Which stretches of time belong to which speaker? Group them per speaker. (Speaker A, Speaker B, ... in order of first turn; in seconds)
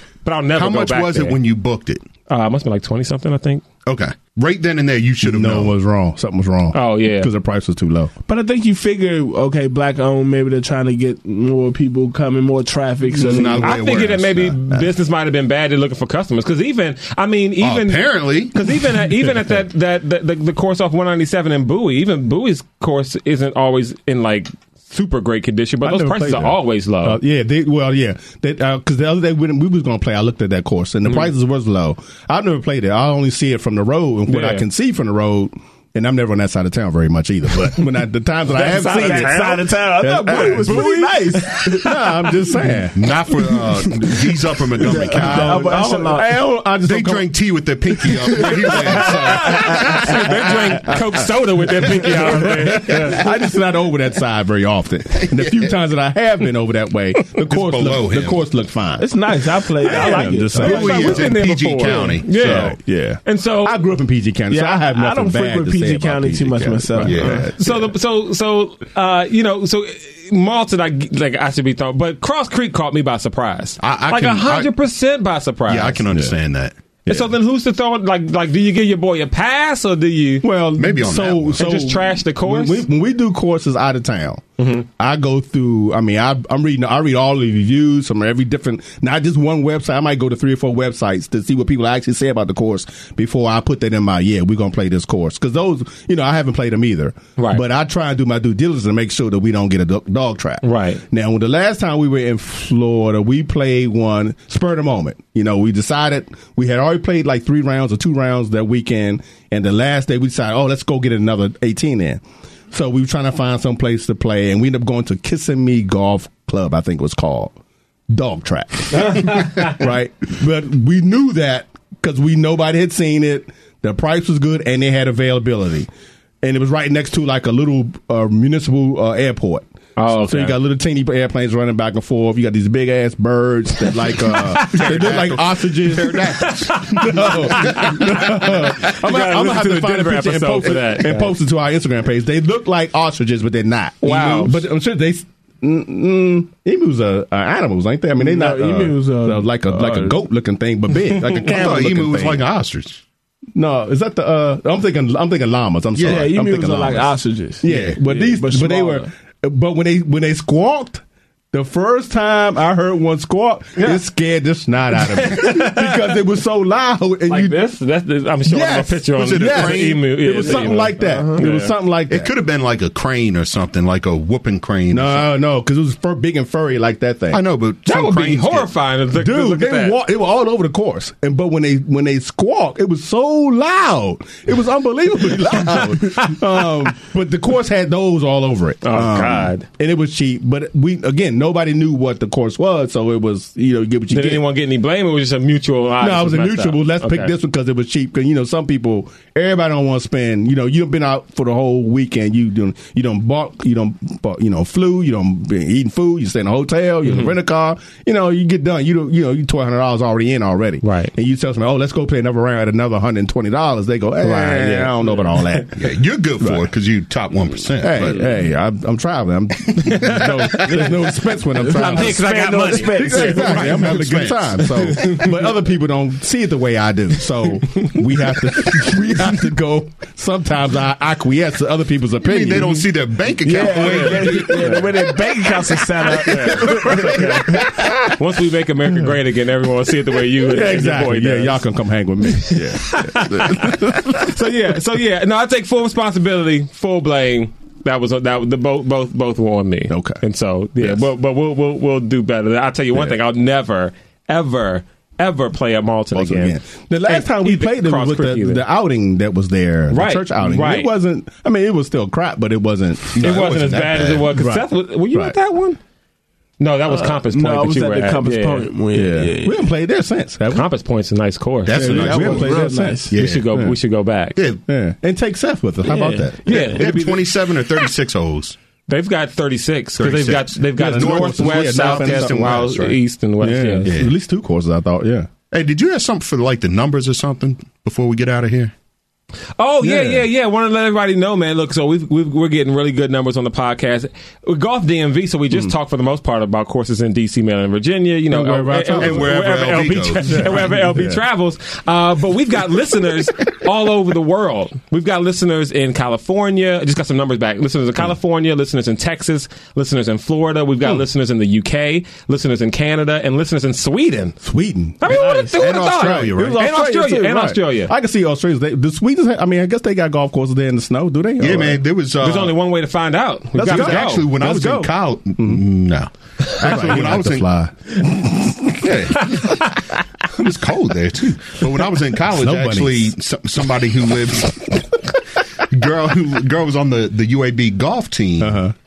Speaker A: 0.2-1.4, 2.3-3.6, 6.7-7.3, 13.6-27.2, 34.3-34.6, 38.5-39.7, 40.6-41.9, 49.2-53.3, 59.9-63.8, 67.6-76.0, 77.1-80.5, 81.6-82.8, 84.6-84.9, 97.4-97.6, 100.6-101.0, 119.0-119.7, 130.0-130.6, 134.3-134.9, 136.4-141.3, 144.0-144.7, 165.0-166.1, 167.3-171.7, 177.9-180.0, 185.5-186.6, 188.8-189.7, 194.1-197.3, 207.1-207.3, 210.8-211.1, 214.2-215.6, 219.8-221.0, 221.7-225.5, 233.7-234.3, 236.1-237.2, 238.1-241.6, 242.3-258.6, 259.9-260.9, 263.2-265.8, 266.6-268.7, 270.5-272.1, 273.1-274.4, 276.5-277.2, 278.9-283.9, 289.6-314.4, 315.0-317.9, 322.2-324.3, 326.6-326.9
Speaker B: 0.6-2.0, 3.9-5.7, 13.2-14.6, 17.6-18.6, 43.0-45.8, 46.8-50.3, 55.3-55.6, 57.4-58.4, 60.6-62.8, 67.0-67.5, 73.8-74.7, 75.7-76.8, 80.8-81.6, 134.3-138.3, 151.3-153.0, 155.9-156.3, 157.7-158.0, 169.2-170.7, 172.1-175.3, 177.3-178.7, 215.8-218.2, 223.4-224.7, 232.2-235.1, 263.1-264.3, 271.7-273.4, 274.4-274.6, 276.5-278.6, 280.0-283.0, 283.9-284.1, 285.5-288.7, 298.9-300.6, 315.0-316.6, 321.4-322.6, 323.6-327.5, 328.7-329.6, 330.3-335.0, 335.6-338.6
Speaker C: 5.2-8.1, 25.8-41.0, 41.5-47.3, 48.0-59.2, 59.8-61.3, 61.8-67.9, 80.4-117.5, 118.1-125.9, 126.4-152.4, 153.6-167.6, 168.5-172.3, 174.9-177.4, 179.2-194.4, 196.0-215.8, 217.8-232.9, 236.4-238.2, 240.4-244.3, 249.9-250.2, 256.1-263.2, 264.3-265.4, 268.9-270.7, 271.8-273.8, 274.7-276.4, 280.8-282.5, 283.4-285.3, 289.8-290.2, 298.3-299.3, 300.2-301.2, 314.4-321.8, 323.6-325.6, 326.6-328.9, 332.3-333.2, 338.4-338.7
Speaker D: 8.3-13.8, 38.6-41.9, 44.8-46.4, 48.7-49.0, 59.0-61.2, 64.5-67.5, 148.2-150.2, 156.0-159.1, 171.0-171.4, 221.6-223.9, 233.4-237.8, 266.9-269.6, 271.7-273.1, 275.8-277.0